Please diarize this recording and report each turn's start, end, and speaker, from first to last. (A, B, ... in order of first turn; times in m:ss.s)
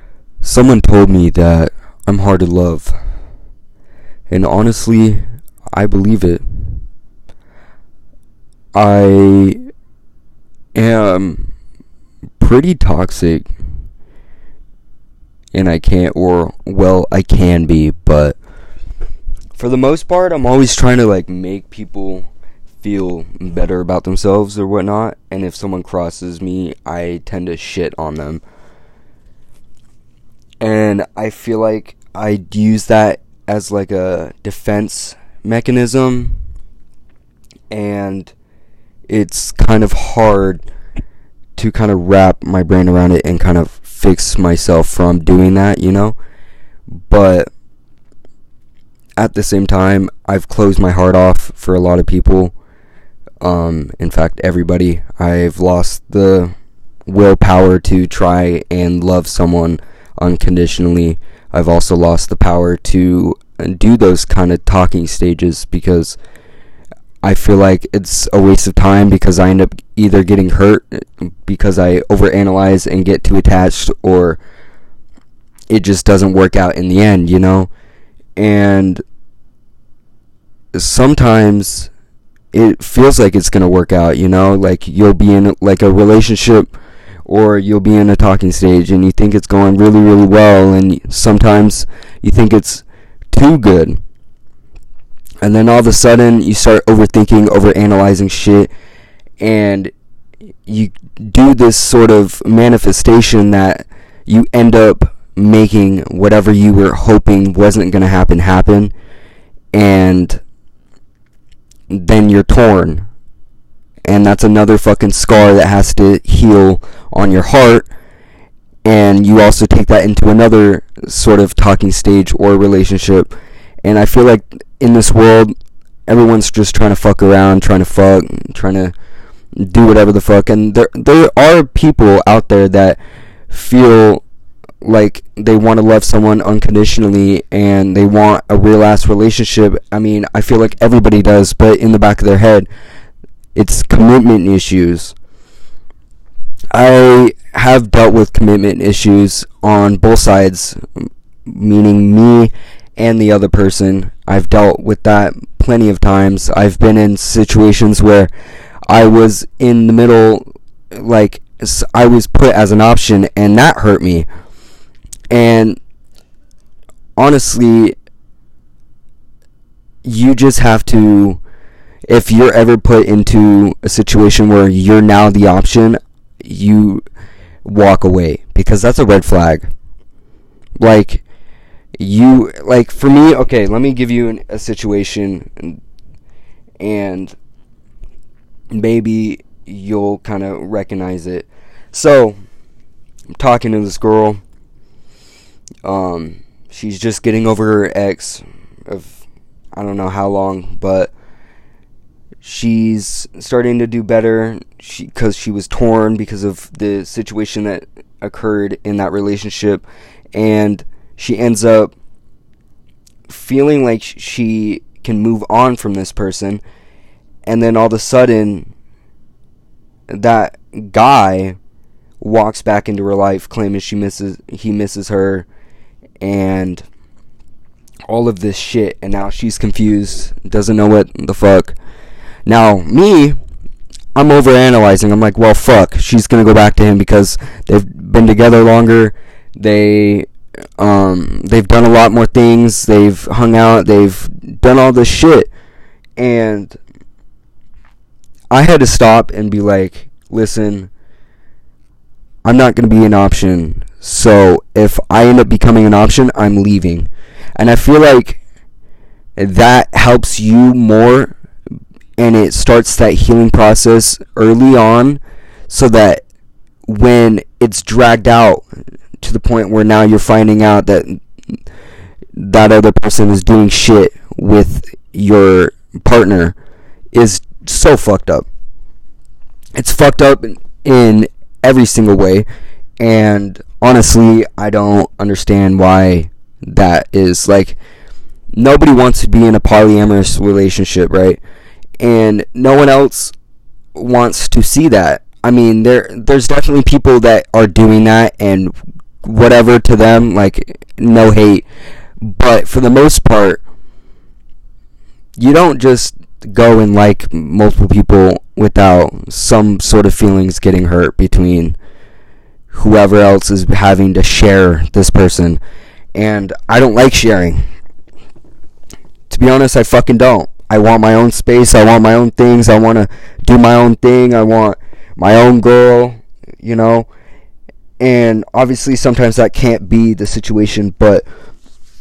0:00.4-0:03.0 A
0:04.3-0:05.2 A
0:05.7-0:06.8 A
0:08.7-0:09.6 A
0:10.7-0:11.5 A
0:12.4-0:13.5 A
0:15.5-0:18.4 A
0:19.6-0:22.3 A
0:22.8-0:28.4 A
0:30.6-0:36.4 A
0:37.7-0:38.3 A
0:39.1-0:40.6 A
0:41.6-0:46.2 A
0:47.1-0:47.5 A
0:49.2-0:52.5 A
0:53.4-0:56.5 A
0:57.1-1:06.2 A
1:07.2-1:14.4 A
1:15.7-1:17.7 A
1:18.4-1:19.0 A
1:20.7-1:21.9 A
1:22.5-1:26.7 A
1:27.2-1:34.0 A
1:35.4-1:38.7 A
1:39.4-1:39.9 A
1:40.6-1:48.9 A
1:49.7-1:50.4 A
1:51.9-1:53.1 A
1:54.0-1:57.9 A
1:58.8-2:03.3 A
2:03.8-2:05.5 A
2:06.1-2:08.9 A
2:09.6-2:13.0 A
2:13.5-2:14.2 A
2:14.8-2:22.7 A
2:23.5-2:25.1 A
2:26.7-2:30.8 A
2:31.5-2:38.3 A
2:38.9-2:44.3 A
2:45.3-2:45.8 A
2:47.2-2:47.9 A
2:50.0-2:51.4 A
2:52.1-2:57.0 A
2:57.6-2:59.7 A
3:00.8-3:01.2 A
3:02.0-3:05.8 A
3:06.8-3:07.3 A
3:08.7-3:12.4 A
3:13.3-3:14.4 A
3:15.8-3:19.2 A
3:19.7-3:21.1 A
3:22.4-3:31.9 A
3:33.3-3:36.6 A
3:37.4-3:38.7 A
3:40.1-3:41.6 A
3:42.2-3:45.4 A
3:46.2-3:46.8 A
3:48.1-3:51.8 A
3:52.4-3:53.4 A
3:54.1-4:00.3 A
4:00.8-4:05.5 A
4:06.2-4:06.8 A
4:08.5-4:10.9 A
4:12.4-4:18.4 A
4:19.4-4:21.3 A
4:22.2-4:26.2 A
4:26.8-4:28.6 A
4:29.2-4:31.2 A
4:32.4-4:36.6 A
4:37.1-4:38.4 A
4:39.7-4:42.5 A
4:43.0-4:47.8 A
4:48.5-4:51.4 A
4:52.0-4:53.3 A
4:53.9-5:01.6 A
5:02.2-5:03.6 A
5:05.4-5:11.8 A
5:12.7-5:15.6 A
5:16.1-5:17.6 A
5:19.3-5:27.1 A
5:28.0-5:31.2 A